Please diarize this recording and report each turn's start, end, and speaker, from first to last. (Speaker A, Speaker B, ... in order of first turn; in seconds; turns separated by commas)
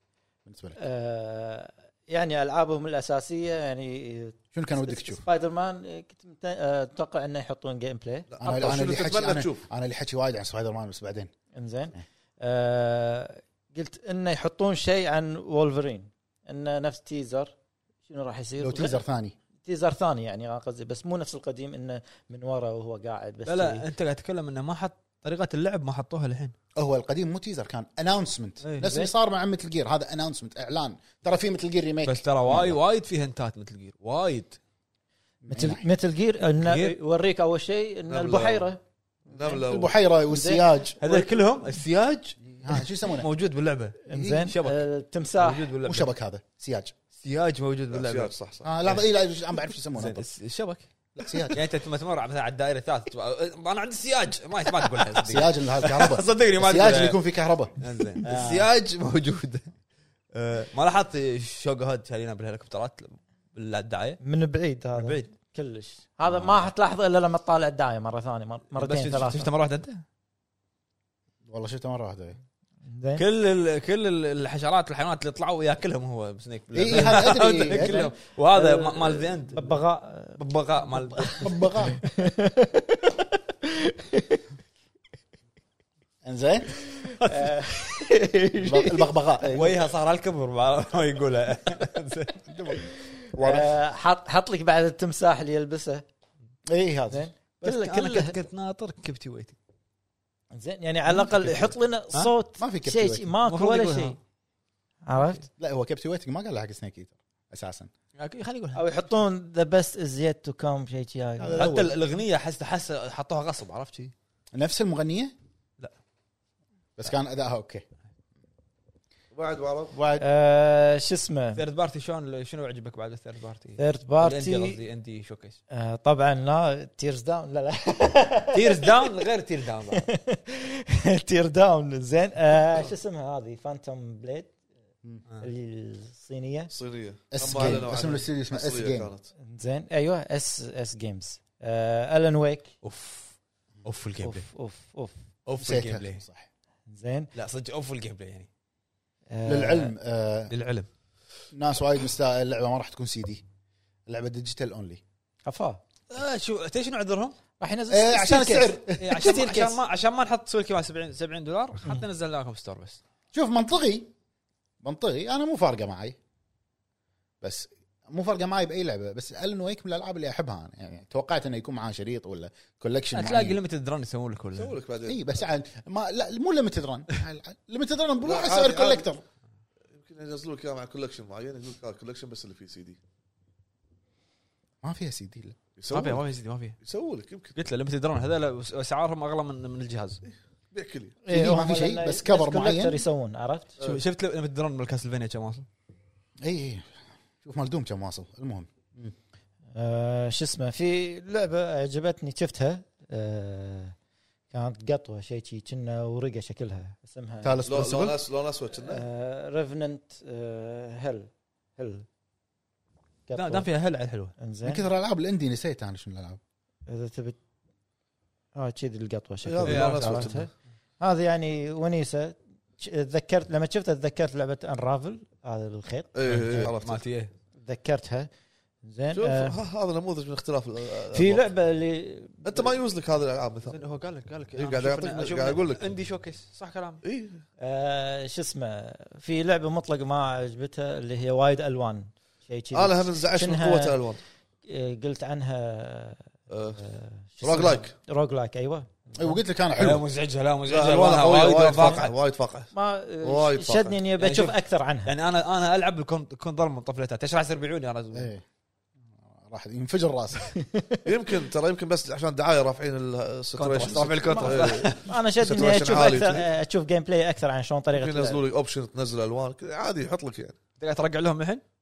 Speaker A: 0.5-0.8, Speaker B: 0.8-8.4, Speaker A: 4.5-5.2, Speaker C: 8.3-9.7, Speaker A: 8.4-11.3, Speaker B: 11.5-17.5, Speaker B: 18.1-19.0, Speaker A: 18.6-19.3, Speaker B: 19.6-23.9, Speaker D: 23.4-26.5, Speaker A: 26.8-32.8, Speaker D: 28.6-28.9, Speaker B: 28.8-29.1, Speaker D: 32.0-34.6, Speaker A: 35.4-35.9, Speaker B: 35.5-38.8, Speaker D: 36.6-36.9, Speaker C: 38.1-38.7, Speaker B: 39.3-39.6, Speaker C: 39.3-39.9, Speaker A: 39.4-41.3, Speaker B: 40.3-40.6, Speaker D: 41.0-44.8, Speaker A: 42.5-43.3, Speaker B: 44.1-45.7, Speaker A: 44.1-44.5, Speaker D: 45.4-46.1, Speaker A: 45.8-46.9, Speaker D: 47.2-48.3, Speaker C: 47.9-48.7, Speaker A: 48.6-50.2, Speaker D: 49.9-50.8, Speaker A: 51.2-51.6, Speaker D: 51.5-57.2, Speaker A: 55.1-58.7, Speaker D: 57.8-59.7, Speaker D: 60.3-64.2, Speaker B: 64.2-69.5, Speaker D: 65.0-65.3, Speaker D: 68.8-70.0, Speaker A: 71.4-72.4, Speaker B: 72.8-73.2, Speaker D: 73.2-79.8, Speaker A: 76.7-78.1, Speaker B: 76.9-84.4, Speaker D: 80.4-81.7, Speaker A: 81.3-82.0, Speaker A: 86.2-86.7, Speaker D: 87.2-88.0, Speaker B: 87.2-89.0, Speaker A: 88.6-89.8, Speaker D: 89.5-92.4, Speaker A: 92.5-93.7, Speaker B: 93.4-96.0, Speaker A: 96.7-97.2, Speaker B: 97.1-98.3, Speaker D: 97.6-99.5, Speaker B: 100.5-104.2, Speaker D: 101.2-101.6, Speaker A: 102.6-103.3, Speaker D: 103.5-104.2, Speaker B: 105.0-105.4, Speaker A: 105.6-107.9, Speaker D: 108.2-108.8, Speaker B: 108.7-111.8, Speaker D: 111.4-114.1, Speaker A: 111.5-111.9, Speaker A: 114.5-115.3, Speaker A: 117.0-117.8, Speaker C: 119.3-119.9, Speaker A: 119.9-120.2, Speaker B: 120.2-121.6, Speaker D: 121.5-125.6, Speaker B: 123.8-124.8, Speaker B: 125.7-129.1, Speaker D: 128.5-130.1, Speaker B: 129.9-134.5, Speaker B: 135.4-136.7, Speaker C: 136.7-139.3, Speaker A: 137.3-139.1, Speaker B: 139.4-142.7, Speaker D: 142.8-144.5, Speaker B: 144.2-145.1, Speaker D: 145.4-146.2, Speaker A: 145.6-146.5, Speaker B: 146.9-147.3, Speaker D: 147.3-148.5, Speaker B: 149.3-149.9, Speaker A: 149.4-150.5, Speaker A: 151.5-153.4, Speaker A: 154.1-155.0, Speaker B: 155.4-155.8, Speaker D: 156.1-157.3, Speaker B: 157.6-159.8, Speaker A: 157.9-159.3, Speaker D: 159.0-163.0, Speaker A: 163.3-164.1, Speaker A: 164.8-166.2, Speaker A: 167.4-173.6, Speaker D: 173.1-174.8, Speaker C: 174.5-175.2, Speaker A: 175.1-179.2, Speaker C: 178.2-179.1, Speaker C: 179.9-183.0, Speaker A: 184.8-185.6, Speaker C: 185.8-186.2, Speaker D: 185.9-186.8, Speaker C: 186.8-187.6, Speaker D: 187.5-190.2, Speaker C: 190.7-191.2, Speaker B: 191.2-193.7, Speaker A: 191.3-193.0, Speaker D: 193.8-195.7, Speaker A: 196.4-196.9, Speaker A: 197.4-199.1, Speaker B: 199.7-203.9, Speaker B: 204.5-207.6, Speaker A: 207.4-208.2, Speaker C: 207.6-209.0, Speaker B: 208.8-212.1, Speaker B: 213.3-213.7, Speaker D: 213.3-214.3, Speaker B: 214.4-214.8, Speaker A: 214.6-216.4, Speaker B: 216.9-217.4, Speaker B: 218.5-226.7, Speaker C: 219.4-220.5, Speaker D: 219.6-220.4, Speaker C: 226.1-227.0, Speaker D: 226.2-227.3, Speaker B: 227.6-228.3, Speaker B: 228.8-229.6, Speaker C: 229.1-231.5, Speaker B: 231.1-232.8, Speaker C: 232.4-233.8, Speaker D: 233.6-237.0, Speaker C: 234.6-235.8, Speaker C: 237.0-237.4, Speaker B: 237.6-244.0, Speaker C: 242.7-244.2, Speaker B: 244.6-246.2, Speaker C: 246.5-246.8, Speaker B: 246.8-249.4, Speaker C: 247.4-247.9, Speaker A: 249.2-250.0, Speaker D: 249.8-252.1, Speaker C: 250.7-252.7, Speaker B: 252.7-255.1, Speaker C: 253.2-254.0, Speaker D: 254.2-258.3, Speaker A: 258.1-258.4, Speaker A: 259.3-260.5, Speaker B: 260.5-261.0, Speaker C: 261.1-266.4, Speaker D: 263.6-265.1, Speaker B: 264.4-268.4, Speaker C: 267.9-270.6, Speaker D: 270.8-271.6